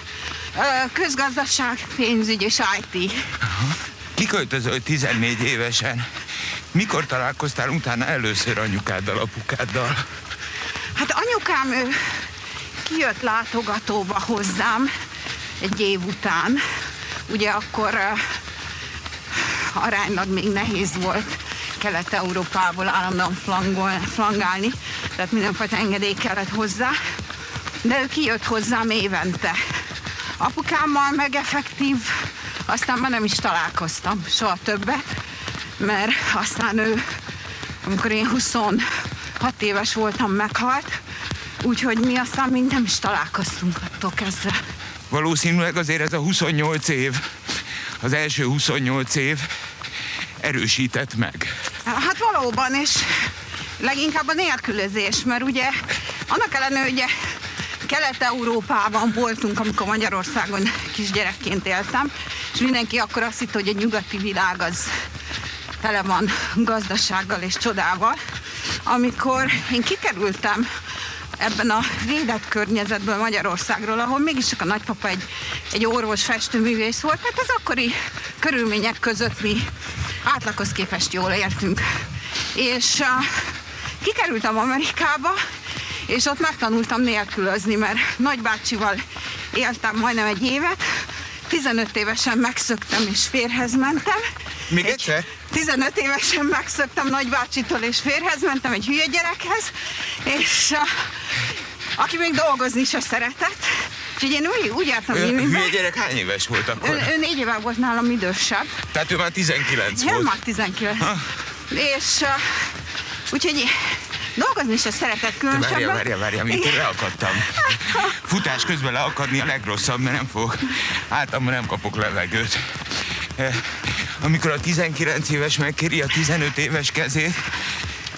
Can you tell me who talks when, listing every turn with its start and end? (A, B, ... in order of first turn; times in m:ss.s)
0:00.5-0:03.3 A
0:03.5-0:06.0 B
0:06.7-0:10.0 B
0:11.0-0:12.3 A
0:12.8-0:14.9 A
0:15.6-0:16.6 A
0:17.3-0:18.4 A
0:19.3-0:27.0 A
0:27.8-0:29.6 A
0:30.4-0:35.2 A
0:35.8-0:37.0 A
0:37.8-0:38.9 A
0:39.4-0:41.0 A
0:41.6-0:44.6 A
0:45.1-0:47.2 B
0:48.0-0:49.5 B
0:50.4-0:51.5 B
0:51.9-0:55.8 A
0:56.3-0:57.1 A
0:57.8-1:04.9 A
1:05.8-1:08.2 A
1:08.8-1:10.7 A
1:11.4-1:19.7 A
1:20.2-1:21.9 A
1:22.5-1:23.4 A
1:24.0-1:25.4 A
1:26.1-1:34.2 A
1:34.7-1:35.3 B
1:34.8-1:45.8 A
1:45.1-1:47.1 B
1:46.8-1:48.8 A
1:48.9-1:50.4 B
1:49.9-1:51.1 A
1:51.0-1:51.3 B
1:51.7-1:52.7 A
1:53.3-1:56.8 A
1:55.5-2:02.8 B
1:57.4-1:58.2 A
2:03.4-2:07.5 B